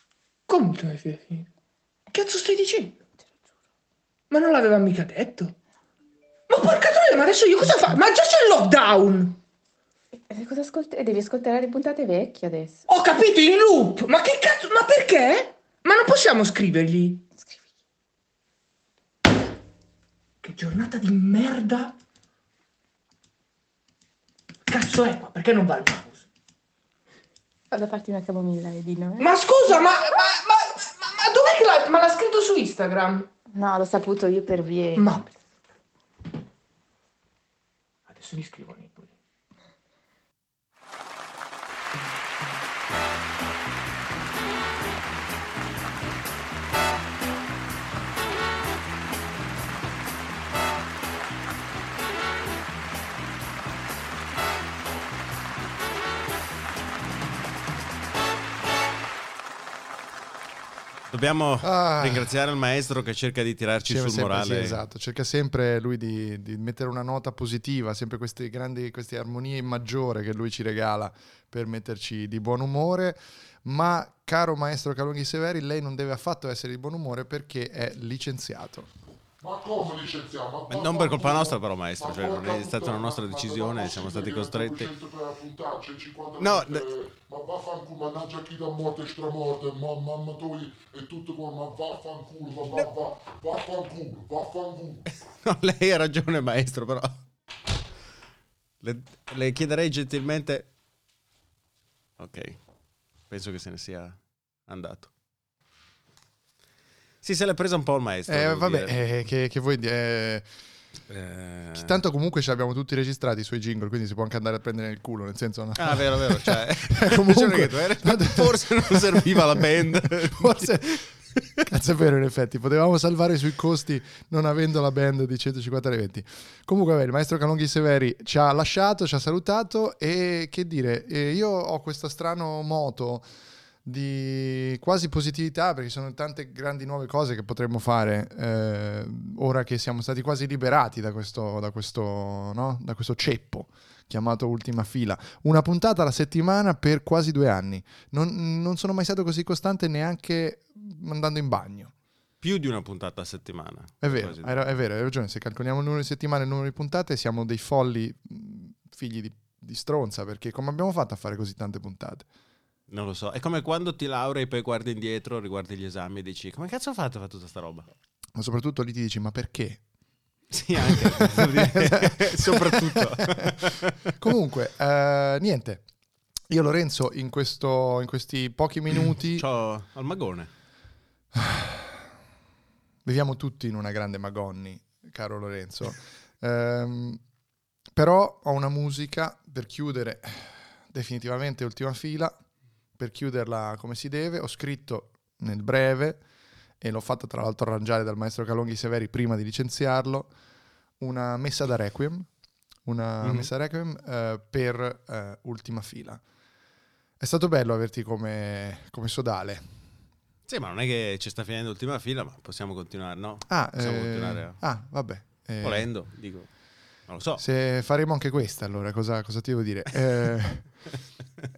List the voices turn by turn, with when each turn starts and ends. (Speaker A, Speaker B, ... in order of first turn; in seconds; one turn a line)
Speaker A: 0.5-1.5
Speaker A: 2.1-3.0
Speaker A: 4.3-5.5
Speaker A: 6.5-9.4
Speaker B: 10.3-12.8
Speaker A: 12.9-17.2
Speaker A: 20.4-21.9
Speaker A: 24.7-26.2
Speaker B: 27.7-29.2
Speaker A: 29.2-33.3
Speaker B: 33.6-35.0
Speaker A: 35.0-35.3
Speaker A: 38.1-39.1
Speaker C: 61.1-64.8
Speaker D: 61.6-62.3
Speaker D: 63.9-78.9
Speaker E: 79.4-95.0
Speaker C: 80.7-84.9
Speaker C: 86.4-86.9
Speaker C: 95.4-97.2
Speaker C: 98.8-100.7
Speaker C: 102.2-102.6
Speaker C: 103.3-105.1
Speaker C: 107.2-109.0
Speaker D: 108.3-110.5
Speaker C: 111.1-112.0
Speaker D: 111.8-121.0
Speaker C: 115.8-120.8
Speaker D: 121.7-133.3
Speaker D: 133.8-151.9
Speaker C: 152.4-154.8
Speaker D: 154.0-162.3
Speaker C: 162.9-167.9
Speaker D: 168.4-169.8
Speaker C: 170.5-173.9
Speaker D: 170.8-173.2
Speaker D: 174.2-175.8
Speaker D: 176.5-179.5
Speaker C: 178.9-180.5
Speaker D: 181.3-182.0
Speaker D: 183.1-187.2
Speaker D: 187.9-192.4
Speaker D: 193.0-196.2
Speaker D: 196.8-200.3
Speaker D: 201.0-202.3
Speaker D: 202.8-206.2
Speaker C: 203.2-203.5
Speaker D: 207.2-209.7
Speaker C: 210.5-214.6
Speaker D: 213.5-215.9
Speaker C: 215.6-216.5
Speaker C: 217.1-217.4
Speaker D: 217.4-220.7